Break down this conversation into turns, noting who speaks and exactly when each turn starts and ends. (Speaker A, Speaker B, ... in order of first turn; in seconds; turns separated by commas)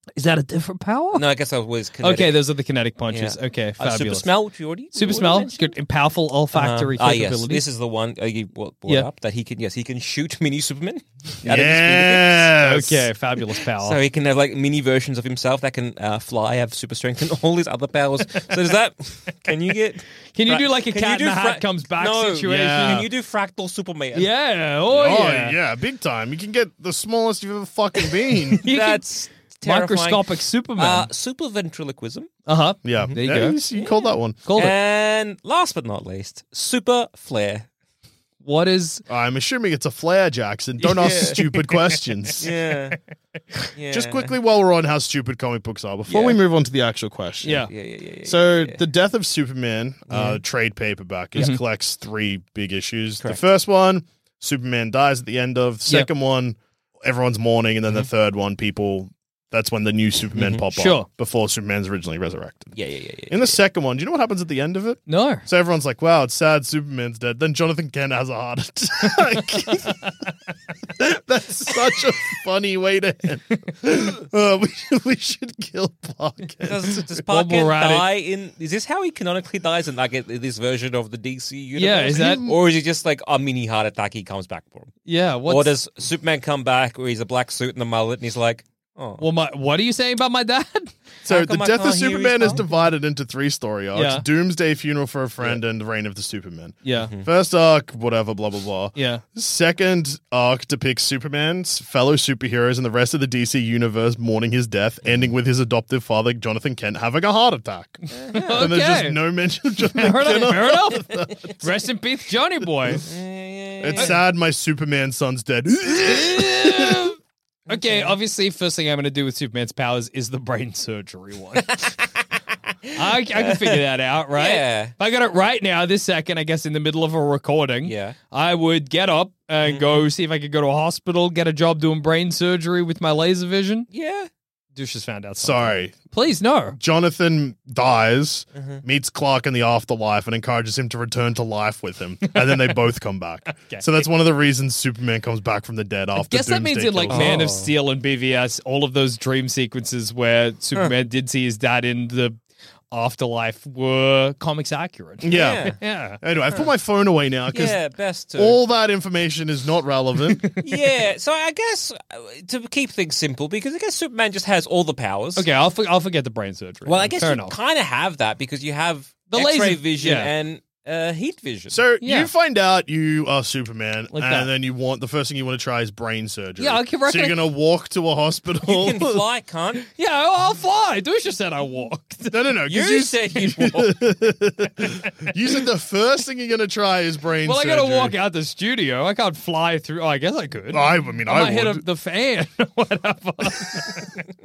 Speaker A: 0.2-1.2, Speaker B: 1.1-2.4, Speaker A: 2.0-4.3, Speaker B: 3.1-5.8, Speaker A: 4.9-7.6, Speaker B: 6.5-12.5, Speaker C: 11.4-13.1, Speaker A: 12.6-14.0, Speaker B: 13.6-24.3, Speaker A: 20.3-23.1, Speaker C: 22.5-23.1, Speaker A: 24.1-25.6, Speaker C: 24.9-28.6, Speaker A: 28.5-29.1, Speaker B: 28.6-32.3, Speaker A: 29.6-31.1, Speaker A: 32.5-33.6, Speaker C: 32.9-34.4, Speaker B: 33.7-37.7, Speaker A: 34.5-34.8, Speaker A: 38.4-39.0, Speaker C: 39.1-42.5, Speaker B: 40.9-41.6, Speaker A: 41.0-41.3, Speaker B: 42.4-43.0, Speaker B: 43.8-44.3, Speaker C: 43.9-47.7, Speaker B: 46.1-46.4, Speaker A: 47.4-47.7, Speaker B: 47.7-48.8, Speaker C: 48.2-62.8, Speaker B: 50.1-50.4, Speaker A: 51.4-51.6, Speaker B: 60.4-60.6, Speaker A: 60.7-61.1, Speaker B: 62.8-63.5, Speaker C: 63.3-70.1, Speaker A: 65.1-65.5, Speaker C: 70.9-77.0, Speaker B: 76.6-84.9, Speaker A: 77.2-78.1, Speaker A: 81.8-82.5, Speaker C: 82.0-82.6, Speaker A: 85.1-85.8, Speaker B: 85.5-89.2, Speaker A: 89.2-91.0, Speaker C: 91.2-108.0, Speaker B: 91.3-92.6, Speaker A: 92.4-92.8, Speaker A: 93.9-94.2, Speaker A: 96.8-97.1, Speaker B: 97.0-97.3, Speaker A: 99.0-99.2, Speaker B: 108.1-108.7, Speaker A: 108.2-109.2, Speaker C: 108.5-111.5, Speaker A: 109.9-113.0, Speaker B: 113.0-114.2, Speaker C: 113.8-117.1, Speaker A: 116.1-117.2, Speaker B: 117.7-118.1, Speaker A: 117.7-121.8, Speaker B: 121.7-122.0, Speaker B: 122.8-123.8, Speaker A: 123.0-133.9, Speaker B: 124.3-124.9, Speaker B: 127.8-128.2, Speaker B: 129.7-130.0, Speaker B: 133.9-134.3, Speaker A: 134.8-136.8, Speaker C: 135.4-136.0, Speaker C: 136.8-147.5, Speaker B: 138.6-138.8, Speaker A: 143.6-144.0, Speaker A: 146.2-152.4, Speaker B: 147.1-147.7, Speaker A: 152.9-156.2, Speaker C: 155.2-157.8, Speaker B: 155.3-155.8, Speaker B: 157.5-158.6, Speaker C: 158.3-160.4, Speaker A: 160.3-160.6, Speaker B: 160.6-165.4, Speaker A: 165.4-167.6, Speaker B: 166.9-171.8, Speaker A: 169.3-170.3, Speaker C: 171.7-179.2, Speaker A: 172.0-172.3, Speaker A: 174.1-174.5, Speaker A: 176.6-177.4, Speaker B: 178.7-179.8, Speaker A: 179.8-182.4, Speaker C: 182.3-188.2, Speaker B: 182.7-184.1, Speaker A: 187.4-194.1, Speaker C: 190.7-191.8